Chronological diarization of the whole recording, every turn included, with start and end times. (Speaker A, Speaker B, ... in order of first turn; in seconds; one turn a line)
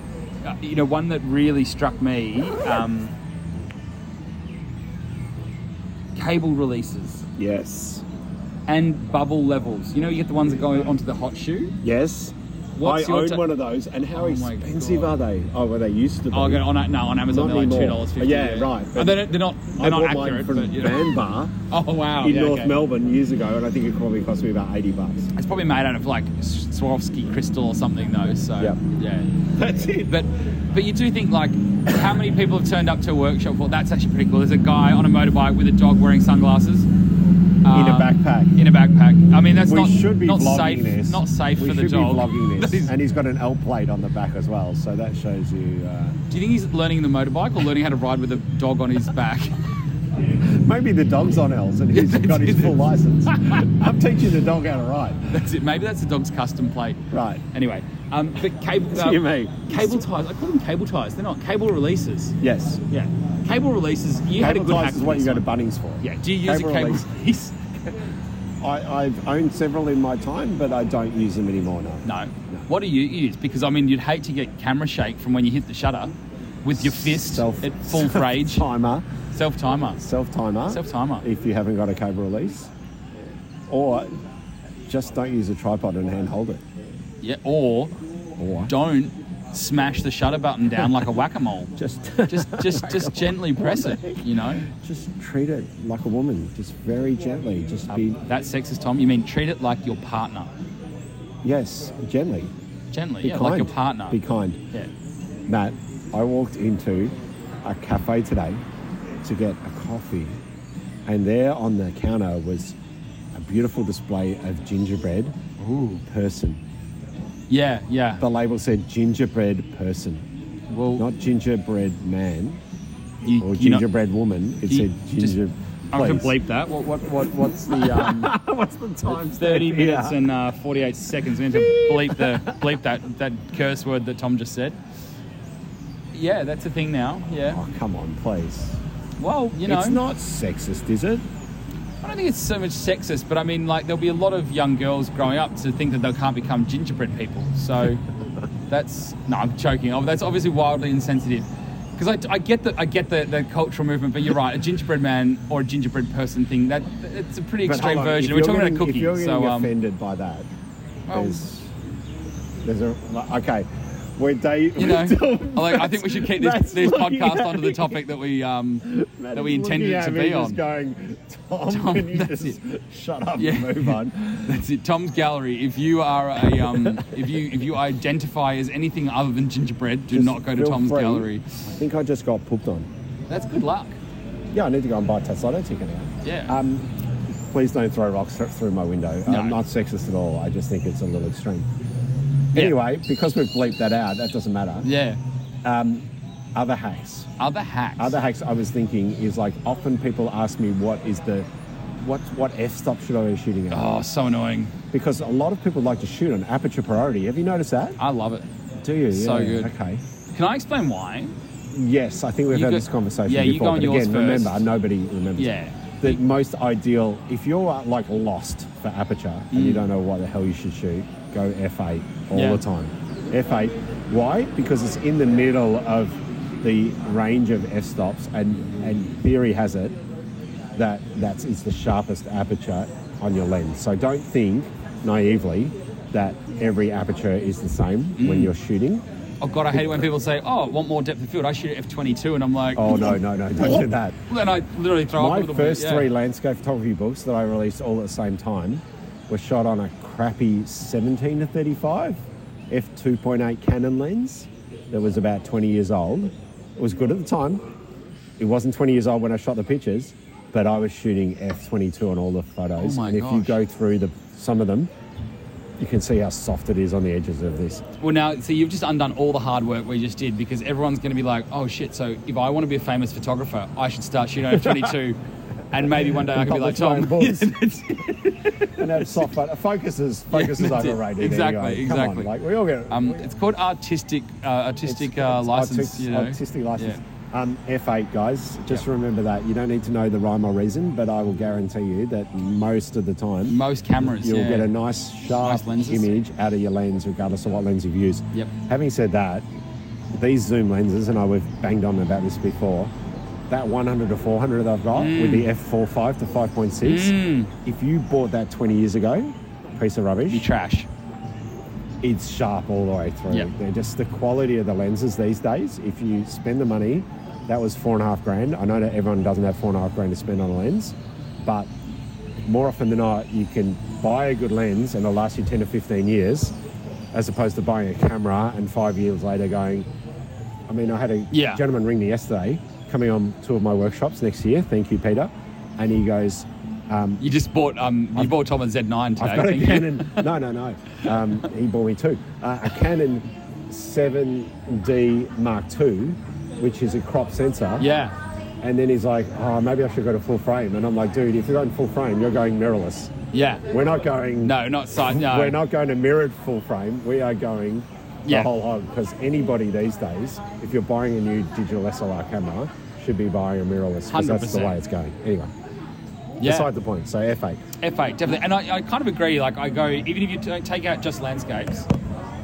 Speaker A: 0.4-3.1
Speaker A: 6.2-7.2
Speaker B: 7.4-8.0
Speaker A: 8.7-11.8
Speaker B: 11.8-16.6
Speaker A: 12.8-13.5
Speaker A: 14.1-15.1
Speaker A: 16.3-21.1
Speaker B: 17.3-21.5
Speaker A: 21.7-22.7
Speaker B: 22.2-25.3
Speaker A: 25.3-29.4
Speaker B: 29.5-30.2
Speaker A: 30.1-36.9
Speaker A: 37.6-42.9
Speaker B: 37.7-38.6
Speaker B: 39.6-46.2
Speaker A: 46.3-49.5
Speaker B: 50.4-55.4
Speaker A: 51.9-53.7
Speaker A: 55.3-62.4
Speaker B: 57.1-57.4
Speaker B: 58.9-60.0
Speaker B: 62.4-62.8
Speaker A: 62.9-65.4
Speaker B: 64.4-67.0
Speaker A: 66.0-68.0
Speaker B: 68.6-72.7
Speaker A: 72.0-78.7
Speaker B: 76.7-79.0
Speaker A: 79.3-80.0
Speaker B: 80.0-82.7
Speaker A: 80.7-81.2
Speaker B: 83.7-84.1
Speaker B: 84.9-86.6
Speaker A: 87.2-87.9
Speaker B: 88.4-88.7
Speaker A: 88.7-91.7
Speaker B: 91.8-98.2
Speaker A: 92.3-94.7
Speaker A: 97.9-100.5
Speaker B: 101.4-102.5
Speaker A: 102.9-104.2
Speaker B: 103.2-104.6
Speaker B: 105.5-108.6
Speaker B: 109.2-110.4
Speaker B: 111.0-112.8
Speaker B: 113.3-115.3
Speaker A: 115.6-116.0
Speaker B: 116.0-116.6
Speaker A: 117.5-118.2
Speaker B: 118.2-120.3
Speaker A: 120.7-121.1
Speaker B: 121.0-122.6
Speaker A: 123.2-123.9
Speaker B: 123.4-126.3
Speaker A: 124.7-125.3
Speaker A: 125.9-128.3
Speaker B: 127.7-130.2
Speaker A: 129.1-134.8
Speaker B: 131.4-132.7
Speaker A: 136.1-137.6
Speaker B: 137.5-138.8
Speaker A: 139.2-140.0
Speaker B: 139.6-141.2
Speaker A: 142.0-148.0
Speaker A: 148.7-151.4
Speaker A: 152.0-159.7
Speaker B: 157.6-160.5
Speaker A: 161.1-161.4
Speaker B: 161.1-161.7
Speaker B: 162.6-168.0
Speaker A: 164.8-170.6
Speaker B: 168.8-174.6
Speaker A: 171.7-172.6
Speaker A: 173.4-181.6
Speaker B: 176.6-177.2
Speaker B: 180.1-182.9
Speaker A: 183.3-184.0
Speaker B: 184.5-191.7
Speaker A: 186.2-186.5
Speaker A: 189.3-189.6
Speaker A: 192.5-192.8
Speaker B: 192.5-194.9
Speaker A: 194.8-195.2
Speaker B: 195.6-197.3
Speaker A: 197.4-198.2
Speaker B: 198.0-201.5
Speaker B: 202.0-203.9
Speaker A: 203.7-204.7
Speaker B: 204.9-208.0
Speaker A: 208.0-208.4
Speaker B: 208.8-210.0
Speaker A: 209.1-209.7
Speaker A: 210.3-211.3
Speaker B: 211.7-230.0
Speaker A: 212.5-214.6
Speaker A: 215.4-216.2
Speaker A: 219.5-219.9
Speaker A: 222.3-222.6
Speaker B: 230.7-239.0
Speaker A: 238.2-238.5
Speaker A: 239.4-246.1
Speaker B: 239.7-240.1
Speaker B: 242.7-244.2
Speaker B: 245.1-257.6
Speaker B: 258.4-264.9
Speaker A: 262.8-263.6
Speaker B: 265.8-267.8
Speaker A: 268.0-275.2
Speaker B: 274.5-274.9
Speaker A: 275.7-279.2
Speaker B: 275.9-277.6
Speaker B: 278.8-283.2
Speaker A: 280.3-282.3
Speaker A: 282.9-287.0
Speaker B: 284.8-299.5
Speaker A: 293.5-294.7
Speaker A: 295.4-296.1
Speaker B: 300.1-302.9
Speaker B: 303.5-310.5
Speaker A: 304.9-305.5
Speaker A: 306.8-307.5
Speaker A: 310.3-310.9
Speaker B: 312.0-321.7
Speaker B: 322.4-326.5
Speaker B: 327.1-329.9
Speaker B: 330.7-337.2
Speaker A: 331.3-331.6
Speaker A: 337.2-340.3
Speaker B: 339.2-347.9
Speaker A: 347.8-348.1
Speaker B: 348.6-353.1
Speaker A: 353.3-353.6
Speaker B: 353.7-365.5
Speaker A: 354.4-355.6
Speaker A: 364.1-364.8
Speaker A: 366.4-366.7
Speaker B: 366.4-367.6
Speaker A: 367.8-371.9